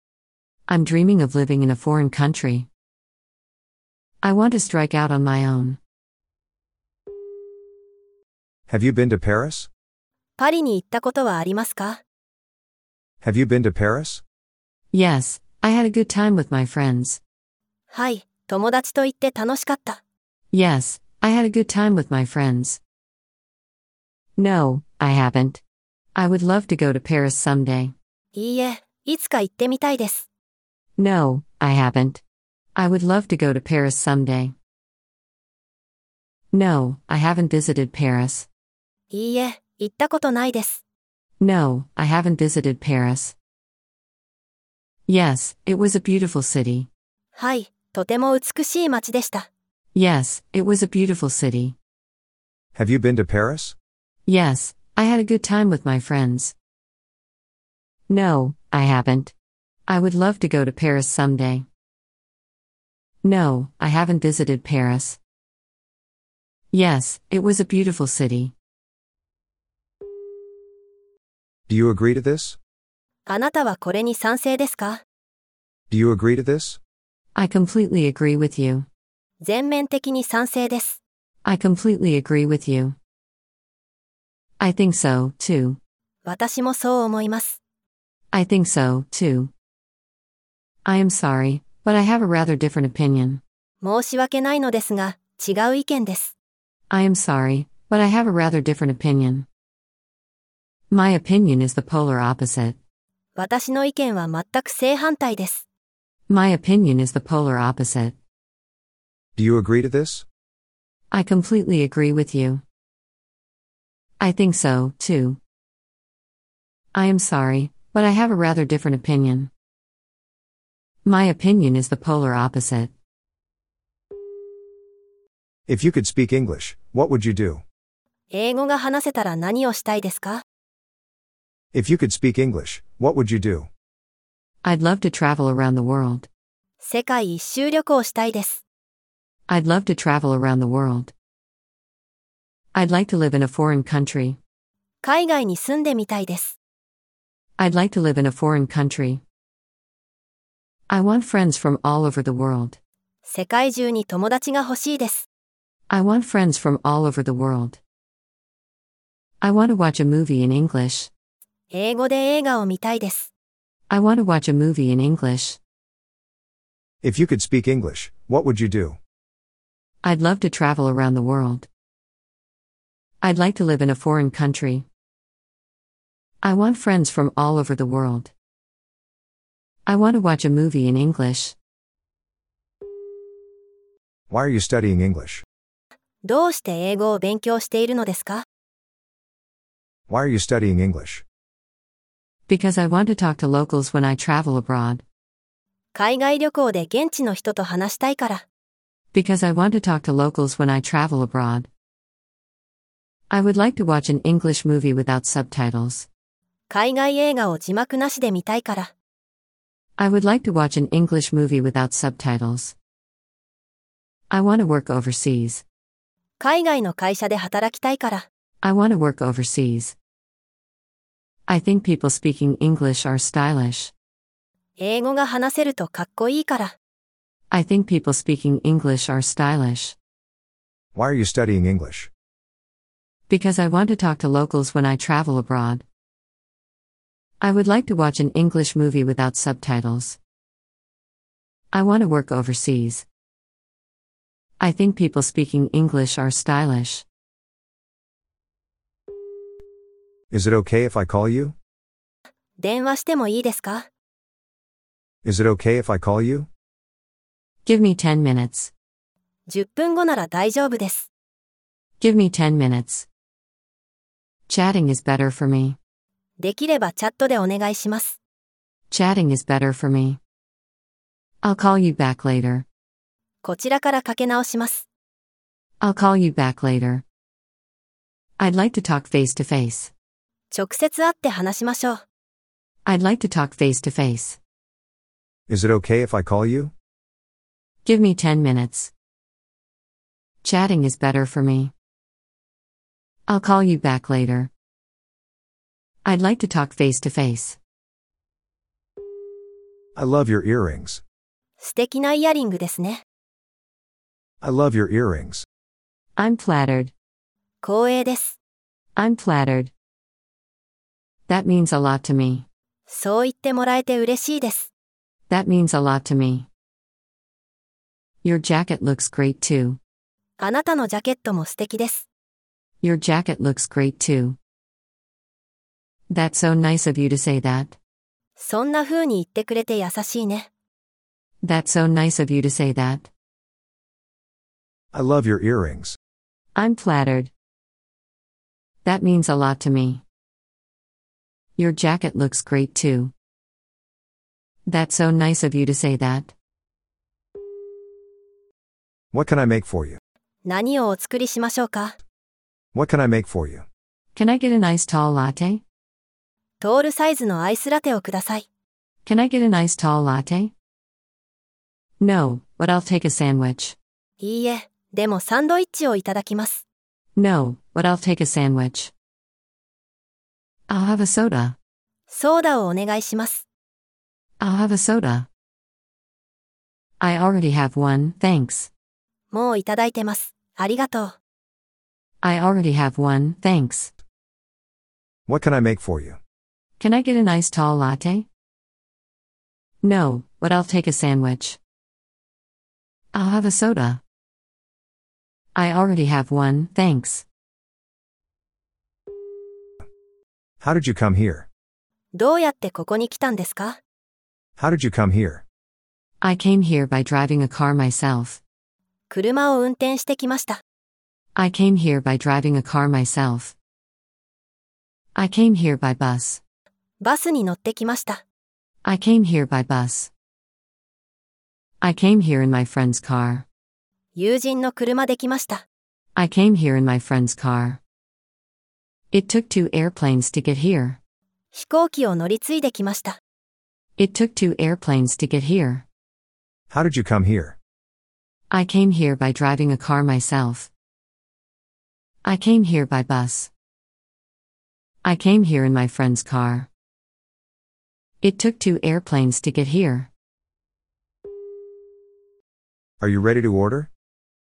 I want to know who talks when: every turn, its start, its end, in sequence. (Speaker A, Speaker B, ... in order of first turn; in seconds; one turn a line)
Speaker A: 0.7-2.7
Speaker A: 4.2-5.8
Speaker B: 8.7-9.7
Speaker C: 10.4-12.0
Speaker B: 13.2-14.2
Speaker A: 14.9-17.2
Speaker C: 17.9-20.0
Speaker A: 20.5-22.8
Speaker A: 24.4-25.6
Speaker A: 26.1-27.9
Speaker C: 28.3-30.3
Speaker A: 31.0-32.2
Speaker A: 32.7-34.5
Speaker A: 36.5-38.5
Speaker C: 39.1-40.8
Speaker A: 41.4-43.3
Speaker A: 45.1-46.9
Speaker C: 47.4-49.5
Speaker A: 49.9-51.8
Speaker B: 52.7-53.8
Speaker A: 54.2-56.5
Speaker A: 58.1-59.3
Speaker A: 59.9-61.6
Speaker A: 63.2-65.2
Speaker A: 66.7-68.5
Speaker B: 71.7-72.6
Speaker C: 73.3-75.0
Speaker B: 75.9-76.8
Speaker A: 77.3-78.8
Speaker C: 79.4-81.0
Speaker A: 81.4-83.0
Speaker A: 84.6-85.8
Speaker C: 86.2-87.6
Speaker A: 88.3-89.5
Speaker A: 90.8-93.4
Speaker C: 93.8-96.3
Speaker A: 96.9-99.5
Speaker A: 100.9-102.8
Speaker C: 103.3-105.6
Speaker A: 106.3-108.2
Speaker B: 109.3-110.2
Speaker A: 111.1-112.6
Speaker A: 114.2-115.4
Speaker A: 116.9-119.5
Speaker A: 121.0-122.9
Speaker B: 125.7-127.6
Speaker C: 128.3-130.4
Speaker B: 131.7-133.7
Speaker A: 134.6-136.3
Speaker C: 136.8-138.6
Speaker A: 139.5-141.1
Speaker A: 142.7-144.4
Speaker C: 145.0-146.6
Speaker A: 147.6-149.2
Speaker A: 150.9-152.8
Speaker C: 153.3-155.2
Speaker A: 155.9-157.8
Speaker A: 159.4-161.1
Speaker C: 161.7-163.3
Speaker A: 163.9-165.6
Speaker B: 167.0-169.0
Speaker A: 170.0-171.7
Speaker A: 173.2-174.8
Speaker A: 176.4-178.3
Speaker A: 179.8-181.6
Speaker B: 184.3-185.4
Speaker C: 186.2-188.4
Speaker B: 190.1-191.2
Speaker A: 192.5-195.0
Speaker C: 195.9-198.4
Speaker A: 199.1-201.7
Speaker A: 203.3-206.1
Speaker C: 206.7-208.9
Speaker A: 210.0-212.7
Speaker A: 214.3-215.6
Speaker C: 216.4-218.2
Speaker A: 218.6-219.9
Speaker A: 221.5-223.9
Speaker C: 224.8-226.7
Speaker A: 227.5-229.9
Speaker B: 230.9-232.1
Speaker A: 233.3-235.8
Speaker A: 237.4-240.2
Speaker A: 241.7-243.0
Speaker A: 244.6-247.0
Speaker B: 250.3-251.5
Speaker C: 252.6-253.9
Speaker B: 255.2-256.5
Speaker A: 257.6-258.7
Speaker C: 259.5-261.1
Speaker A: 262.0-263.1
Speaker A: 264.5-265.8
Speaker C: 266.4-268.2
Speaker A: 268.9-270.2
Speaker A: 271.4-272.6
Speaker C: 273.4-274.8
Speaker A: 275.8-277.0
Speaker A: 278.4-279.9
Speaker C: 280.5-282.0
Speaker A: 282.8-284.4
Speaker B: 285.5-286.7
Speaker A: 287.8-288.9
Speaker A: 290.4-291.7
Speaker A: 293.3-294.5
Speaker A: 296.0-297.6
Speaker B: 299.9-301.0
Speaker C: 301.6-303.0
Speaker B: 304.4-305.4
Speaker A: 306.2-306.9
Speaker C: 307.6-308.4
Speaker A: 308.9-309.7
Speaker A: 311.3-312.4
Speaker C: 312.9-314.7
Speaker A: 315.3-316.5
Speaker A: 318.2-319.8
Speaker C: 320.4-322.1
Speaker A: 322.8-324.4
Speaker A: 326.1-327.8
Speaker C: 328.4-330.5
Speaker A: 331.4-333.1
Speaker B: 334.9-336.0
Speaker A: 336.5-337.3
Speaker A: 338.8-340.0
Speaker A: 341.6-343.1
Speaker A: 344.6-346.3
Speaker B: 349.1-350.0
Speaker C: 350.4-351.9
Speaker B: 352.7-353.6
Speaker A: 354.1-355.6
Speaker C: 356.6-358.4
Speaker A: 359.1-360.5
Speaker A: 362.0-363.8
Speaker C: 364.2-366.6
Speaker A: 367.1-368.9
Speaker A: 370.7-371.6
Speaker C: 372.1-373.4
Speaker A: 374.4-375.3
Speaker A: 377.0-378.7
Speaker C: 379.3-381.1
Speaker A: 382.2-383.9
Speaker B: 385.3-386.2
Speaker A: 386.8-388.3
Speaker A: 389.8-391.6
Speaker A: 393.1-394.0
Speaker A: 395.5-397.2
Speaker B: 400.6-401.5
Speaker C: 402.1-403.8
Speaker B: 404.6-405.4
Speaker A: 406.2-408.4
Speaker C: 409.1-410.6
Speaker A: 411.3-413.5
Speaker A: 415.1-416.4
Speaker C: 417.0-418.2
Speaker A: 418.8-420.1
Speaker A: 421.8-423.4
Speaker C: 424.1-425.6
Speaker A: 426.1-427.8
Speaker A: 429.1-431.0
Speaker C: 431.5-433.2
Speaker A: 434.0-435.8
Speaker B: 436.7-437.6
Speaker A: 438.5-440.7
Speaker A: 442.2-443.5
Speaker A: 445.0-446.7
Speaker A: 448.2-450.1
Speaker B: 453.0-453.9